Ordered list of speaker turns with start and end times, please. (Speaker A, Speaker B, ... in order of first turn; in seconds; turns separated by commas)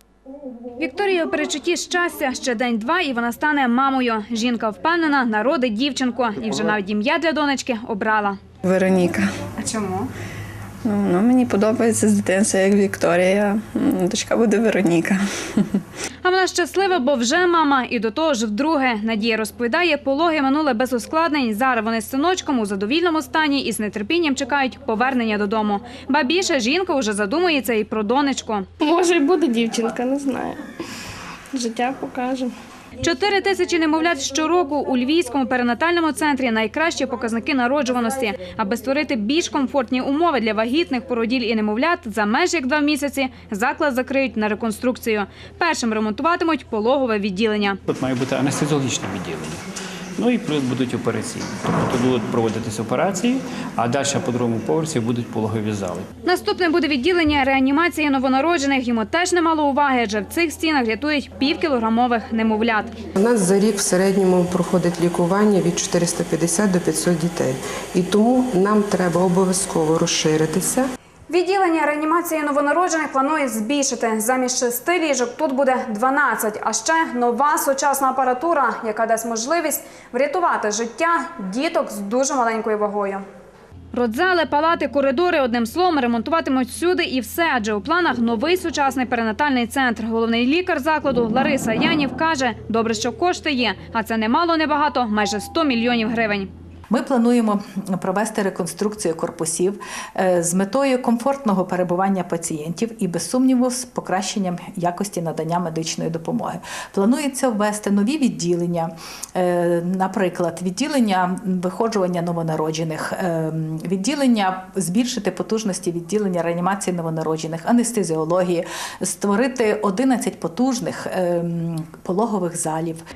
Speaker A: 0.8-8.4, Speaker B: 8.6-9.3, Speaker A: 9.6-10.1, Speaker B: 10.8-15.8, Speaker A: 16.2-28.6, Speaker C: 28.8-30.6, Speaker C: 31.5-32.5, Speaker A: 33.0-47.8, Speaker D: 47.9-49.6, Speaker D: 50.1-56.1, Speaker A: 56.2-63.0, Speaker E: 63.1-70.9, Speaker A: 71.3-83.2, Speaker A: 83.9-96.5, Speaker F: 96.9-123.0